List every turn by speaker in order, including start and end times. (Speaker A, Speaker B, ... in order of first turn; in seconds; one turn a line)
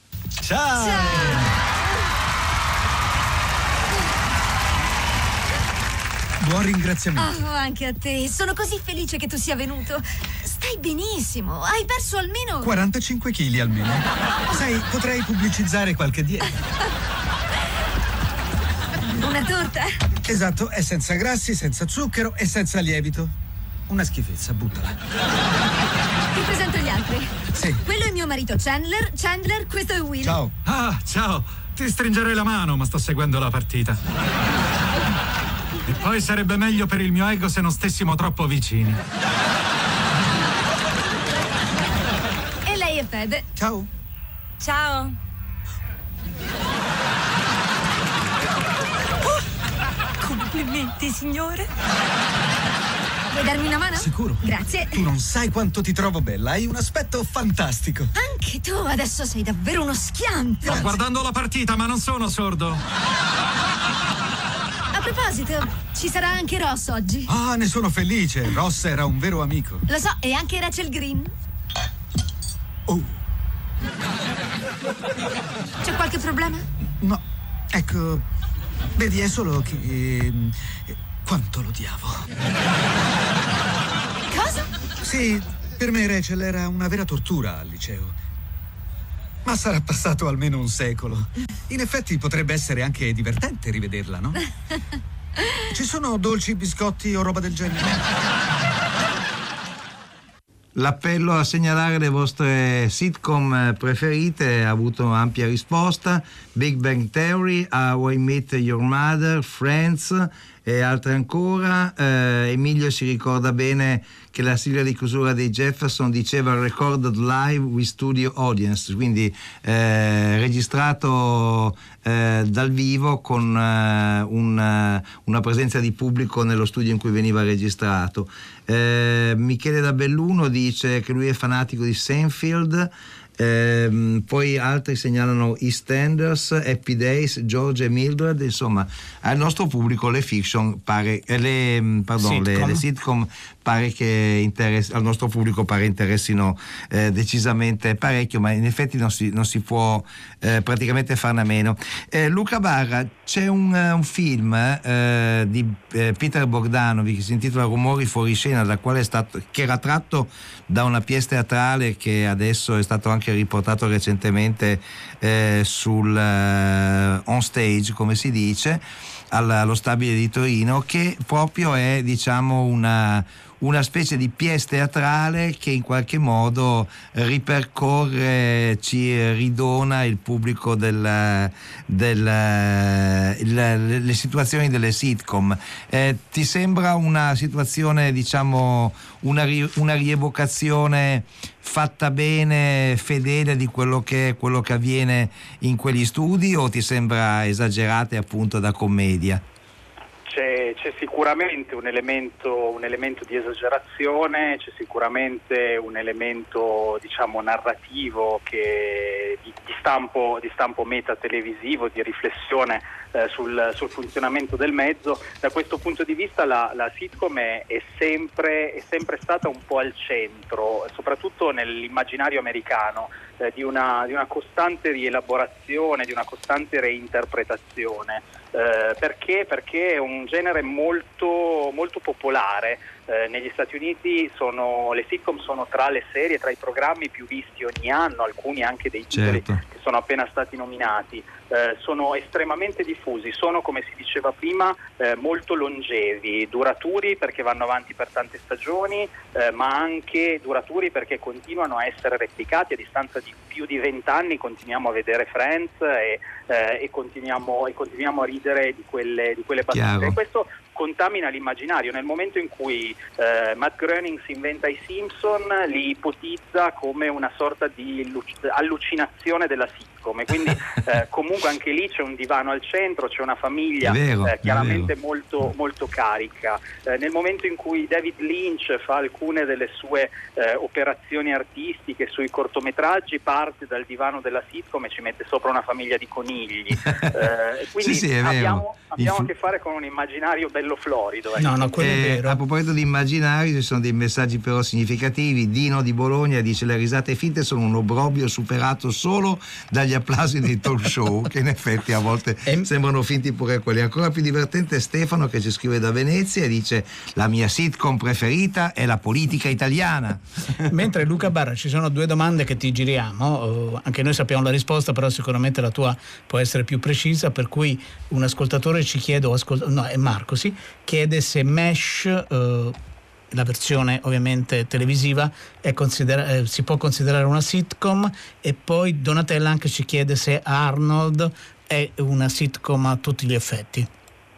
Speaker A: 0.4-1.5
Speaker B: 0.8-1.4
Speaker A: 6.4-7.3
Speaker B: 7.2-12.7
Speaker A: 12.6-16.5
Speaker B: 19.2-19.9
Speaker A: 20.2-23.3
Speaker A: 23.9-25.0
Speaker B: 26.4-27.3
Speaker A: 27.5-27.8
Speaker B: 27.9-30.4
Speaker A: 30.2-30.6
Speaker C: 30.6-34.0
Speaker C: 35.9-39.0
Speaker B: 42.6-43.4
Speaker A: 43.6-43.9
Speaker B: 44.6-45.1
Speaker B: 50.2-51.7
Speaker B: 53.4-55.0
Speaker A: 53.9-58.1
Speaker B: 58.2-60.9
Speaker C: 60.7-62.8
Speaker B: 64.9-67.3
Speaker A: 67.3-69.8
Speaker B: 69.9-71.3
Speaker A: 72.9-73.2
Speaker B: 75.8-76.6
Speaker A: 77.7-78.2
Speaker A: 79.0-82.3
Speaker B: 84.3-84.6
Speaker A: 85.0-88.2
Speaker A: 89.5-94.4
Speaker A: 95.7-98.0
Speaker D: 100.8-199.4
Speaker E: 142.2-142.8
Speaker F: 200.3-291.8
Speaker D: 239.1-239.6
Speaker D: 259.7-260.2
Speaker D: 273.8-274.9
Speaker D: 287.8-289.3
Speaker E: 291.4-292.4
Speaker D: 291.8-310.2
Speaker E: 310.7-322.8
Speaker E: 323.3-333.9